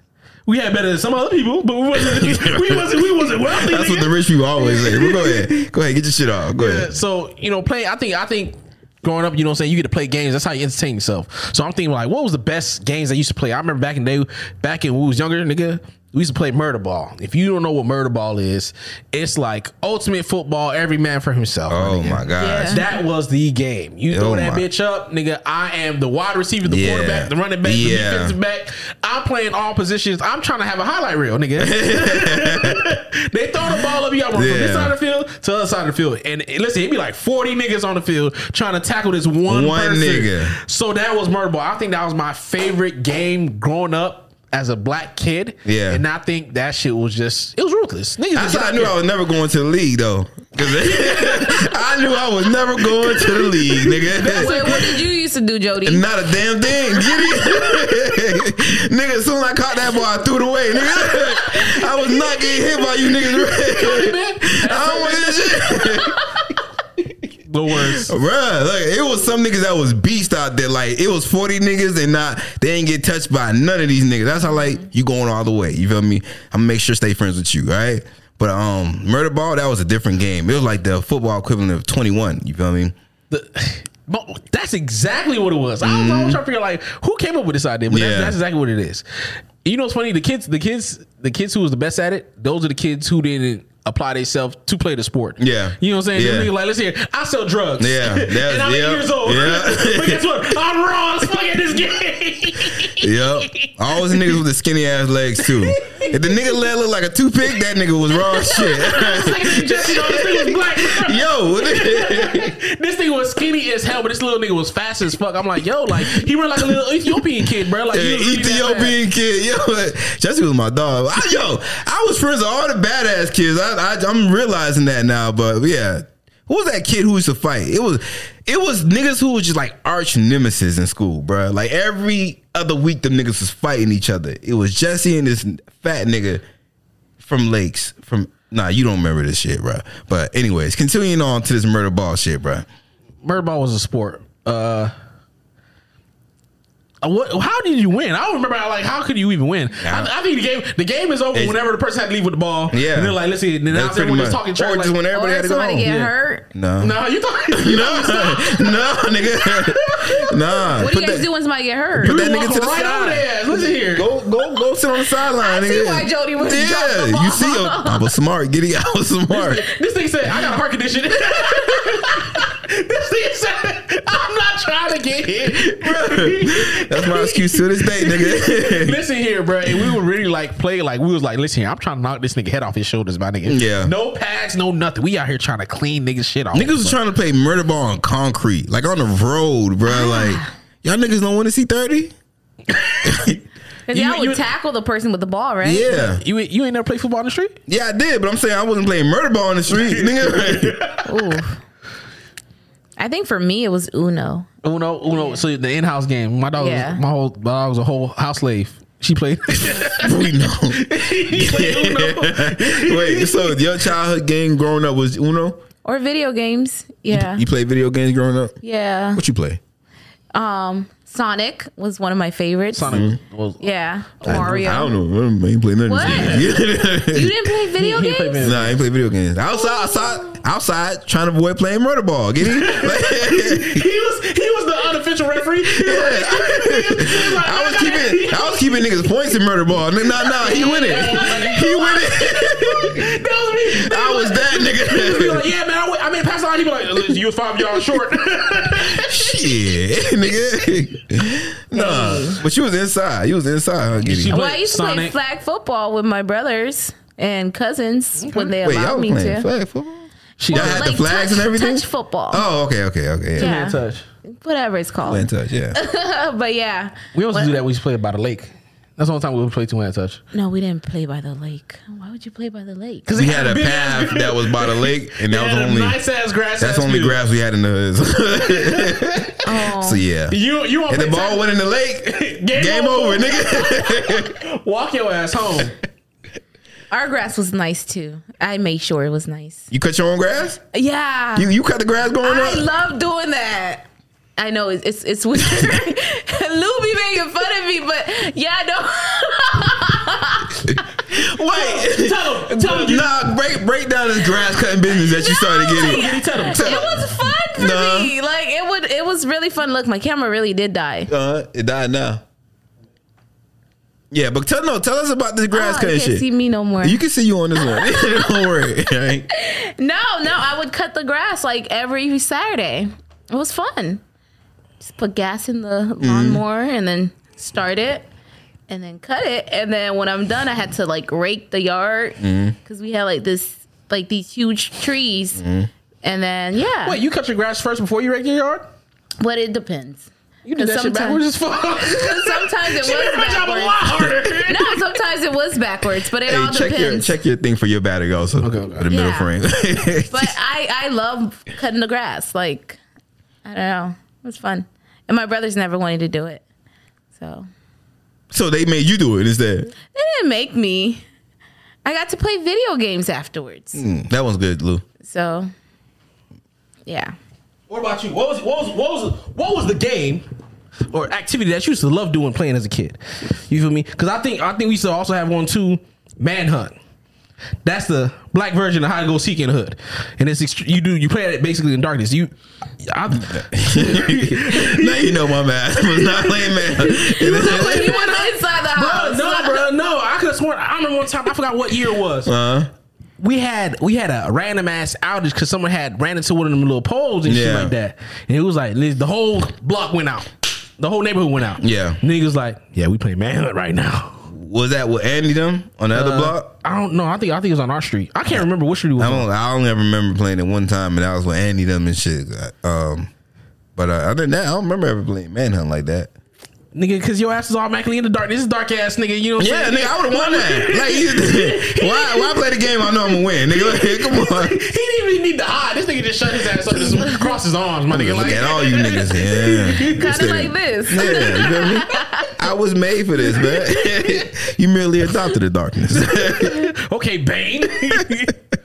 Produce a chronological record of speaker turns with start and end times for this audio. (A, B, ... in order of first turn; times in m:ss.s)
0:00.4-0:05.7 A
0:01.9-0:06.9 B
0:06.5-0:49.0 A
0:21.7-0:22.8 B
0:22.4-0:22.9 C
0:24.1-0:24.6 B
0:26.6-0:28.4 B
0:31.6-0:32.8 B
0:34.3-0:34.9 B
0:39.5-0:40.6 B
0:45.6-0:46.0 B
0:48.3-0:54.8 B
0:50.6-0:51.7 A
0:53.2-0:55.0 A
0:54.2-0:56.0 C
0:55.8-1:06.3 B
1:01.1-1:01.6 A
1:03.4-1:06.0 A
1:07.5-1:08.1 A
1:07.7-1:22.9 B
1:23.3-1:29.0 A
1:25.8-1:26.4 B
1:27.9-1:28.4 B
1:29.6-1:44.4 A
1:35.4-1:36.5 B
1:37.8-1:40.2 B
1:42.8-1:52.5 B
1:45.4-1:46.3 A
1:48.2-1:58.9 A
1:55.9-2:16.4 B
2:17.2-2:22.6 B
2:23.2-2:24.9 A
2:27.0-2:35.0 A
2:29.8-2:30.1 B
2:31.3-2:31.6 B
2:32.7-2:33.2 B
2:33.7-2:35.9 B
2:35.1-2:36.4 C
2:35.8-2:36.1 A
2:36.5-2:37.0 B
2:36.8-2:38.8 A
2:37.5-2:41.2 B
2:39.4-2:40.7 A
2:40.7-2:42.2 C
2:42.0-2:49.6 B
2:42.0-2:44.1 A
2:45.2-2:48.1 C
2:49.3-3:07.0 A
2:51.3-2:52.1 C
2:55.6-2:59.0 B
2:59.7-3:00.0 B
3:03.4-3:03.9 B
3:06.5-3:12.1 B
3:09.8-3:10.5 C
3:12.7-3:13.3 A
3:13.0-3:13.4 B
3:13.9-3:16.0 C
3:13.9-3:14.4 A
3:15.6-3:16.2 B
3:15.9-3:17.6 A
3:17.7-3:20.8 B
3:19.7-3:21.1 A
3:21.0-3:21.6 C
3:23.0-3:24.5 C
3:24.6-3:33.7 A
3:25.1-3:25.4 C
3:26.6-3:27.0 C
3:29.9-3:35.6 B
3:35.8-3:37.4 C
3:37.1-3:38.6 B
3:38.6-3:39.2 C
3:39.2-3:39.6 B
3:40.3-3:43.0 C
3:42.7-3:43.6 A
3:42.9-3:43.2 B
3:43.6-3:45.0 C
3:44.2-3:44.8 A
3:44.2-3:47.4 B
3:45.8-3:48.5 C
3:46.0-3:46.4 A
3:47.7-3:48.8 A
3:48.4-3:53.9 B
3:49.7-3:50.4 C
3:52.4-3:58.8 A
3:55.6-4:03.0 B
4:00.2-4:09.4 A
4:00.4-4:01.6 C
4:03.7-4:05.5 B
4:08.8-4:14.4 B
4:11.7-4:12.4 C
4:14.0-4:15.1 A
4:14.3-4:19.5 C
4:18.2-4:18.5 A
4:18.6-4:23.5 B
4:20.4-4:20.9 A
4:20.5-4:22.4 C
4:23.4-4:24.0 A
4:23.4-4:27.6 C
4:25.0-4:25.8 B
4:27.1-4:30.2 A
4:30.3-4:33.1 C
4:33.0-4:37.2 A
4:33.2-4:36.0 B
4:36.6-4:40.4 B
4:38.5-4:39.3 A
4:39.4-4:40.0 C
4:40.3-4:45.8 A
4:40.9-4:44.4 B
4:46.9-4:49.6 C
4:49.7-4:50.6 B
4:50.7-4:51.5 C
4:51.4-4:52.6 B
4:52.2-5:00.8 C
5:00.7-5:08.1 B
5:01.1-5:03.2 A
5:04.9-5:11.1 C
5:05.8-5:07.0 A
5:11.1-5:12.2 B
5:14.1-5:16.2 B
5:15.5-5:17.0 C
5:16.8-5:19.2 B
5:17.6-5:18.6 C
5:19.3-5:24.0 C
5:24.8-5:28.1 C
5:26.0-5:26.4 B
5:28.7-5:35.4 C
5:32.2-5:32.6 B
5:35.4-5:35.7 B
5:36.0-5:37.0 C
5:36.8-5:38.6 A
5:39.2-5:41.2 C
5:40.4-5:44.8 A
5:41.8-5:47.2 C
5:46.2-5:50.3 B
5:48.4-5:48.8 A
5:48.9-5:49.3 C
5:50.1-5:52.8 C
5:53.4-5:56.4 C
5:57.2-5:57.5 C
5:58.3-5:59.7 B
5:59.9-6:01.0 C
6:01.8-6:03.8 C
6:03.7-6:04.8 B
6:05.0-6:05.5 C
6:06.8-6:07.1 C
6:07.7-6:10.2 A
6:10.9-6:16.7 A
6:17.6-6:22.3 A
6:22.8-6:32.3 A
6:23.2-6:28.0 B
6:26.8-6:29.7 C
6:32.2-6:32.7 B
6:33.2-6:44.3 A
6:37.2-6:37.7 B
6:41.6-6:42.0 B
6:44.3-6:46.5 B
6:45.9-6:49.2 A
6:49.0-6:53.1 B
6:53.8-6:56.1 B
6:56.7-7:10.1 A
6:59.4-7:04.6 B
7:06.8-7:07.2 B
7:07.9-7:16.7 B
7:09.9-7:12.3 C
7:13.4-7:14.2 A
7:16.0-7:18.4 A